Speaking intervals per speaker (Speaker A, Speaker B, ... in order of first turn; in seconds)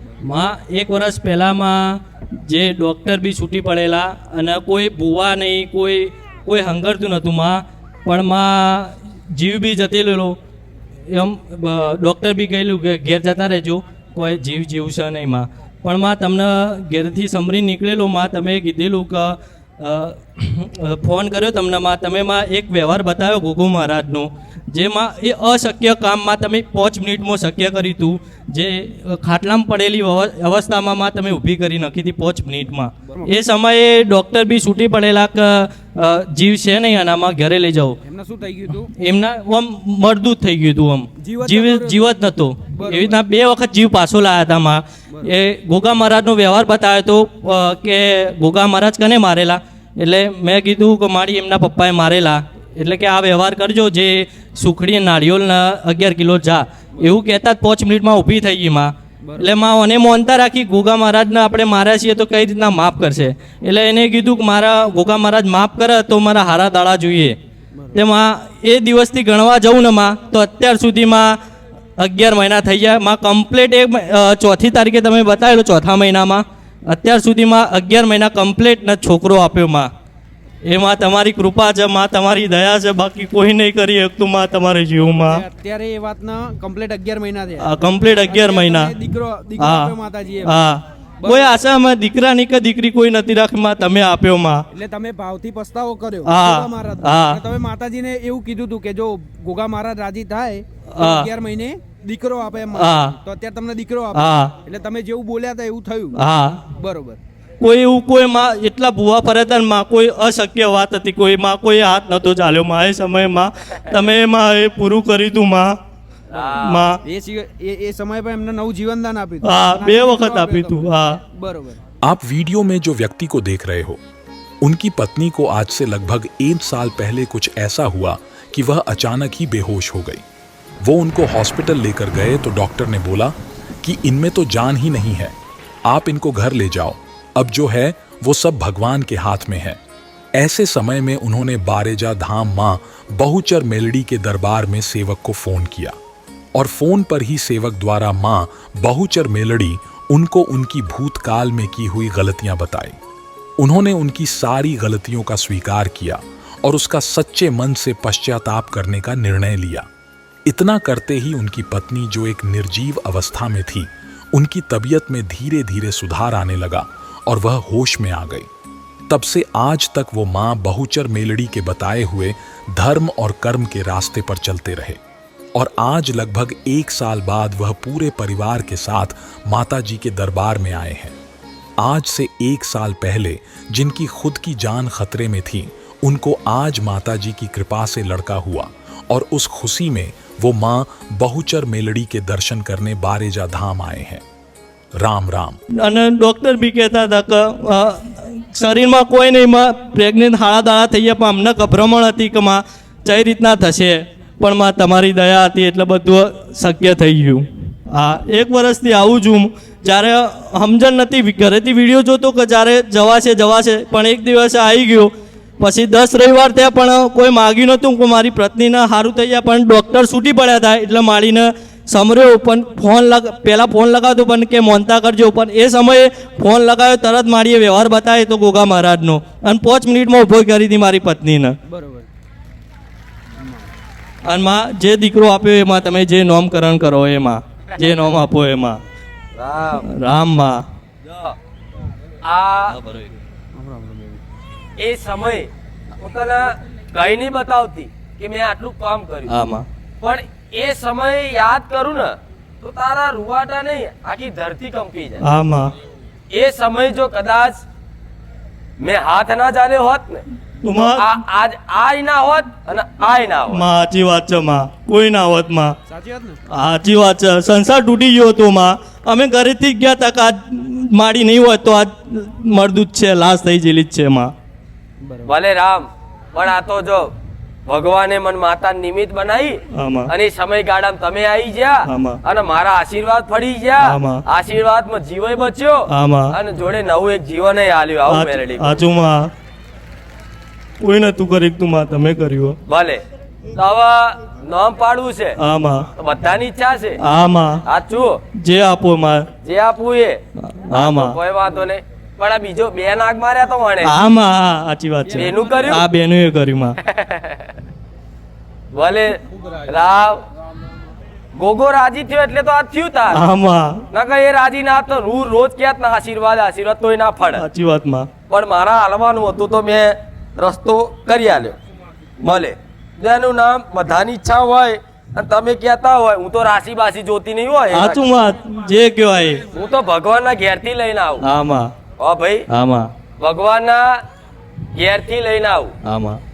Speaker A: 0.2-10.4, 11.1-38.0, 38.9-67.4, 67.9-71.4, 72.0-79.9, 80.7-85.4, 87.6-88.9, 89.6-94.6, 96.2-97.4, 100.9-101.3, 102.7-103.1, 104.1-104.5, 106.2-106.6, 107.6-115.8, 116.6-117.0, 119.4-121.2, 195.8-231.6, 234.2-238.8, 239.8-240.6, 249.3-249.7, 255.2-255.7, 260.6-261.1, 263.5-265.8, 266.5-274.3, 279.7-280.1, 281.9-282.2, 283.8-284.2, 285.9-286.3, 288.1-289.3, 290.8-292.6, 295.4-295.9, 297.0-297.6, 298.4-299.3, 300.5-301.1, 303.8-306.8, 313.1-313.8, 317.3-318.1, 327.7-329.4, 331.2-331.7, 332.5-332.9, 335.9-336.2
Speaker B: 33.1-33.3, 38.0-38.9, 41.2-43.2, 59.2-59.5, 67.7-68.0, 85.1-90.5, 91.2-91.6, 94.7-106.2, 106.8-107.2, 117.0-121.8, 231.7-232.1, 233.4-233.7, 243.5-244.2, 265.9-266.4, 275.0-275.3
Speaker C: 116.3-116.9, 239.4-239.9, 241.1-241.3, 242.2-243.0, 244.8-249.4, 250.0-255.2, 256.3-257.6, 258.8-260.2, 260.9-263.6, 275.2-277.1, 277.7-288.8, 292.7-293.0, 293.6-295.4, 296.0-297.0, 297.6-298.2, 299.4-300.2, 300.7-303.9, 305.1-305.8, 306.8-307.4, 308.7-310.2, 311.4-313.2, 313.9-317.4, 318.3-321.6, 322.2-328.0, 329.5-331.2, 332.0-332.4, 333.2-333.9, 334.8-335.7
Speaker D: 122.0-124.0, 124.6-130.2, 130.8-135.3, 135.9-139.8, 140.3-145.9, 146.5-153.0, 153.6-159.9, 160.5-168.5, 169.1-175.0, 175.5-181.2, 181.8-194.2, 195.0-195.6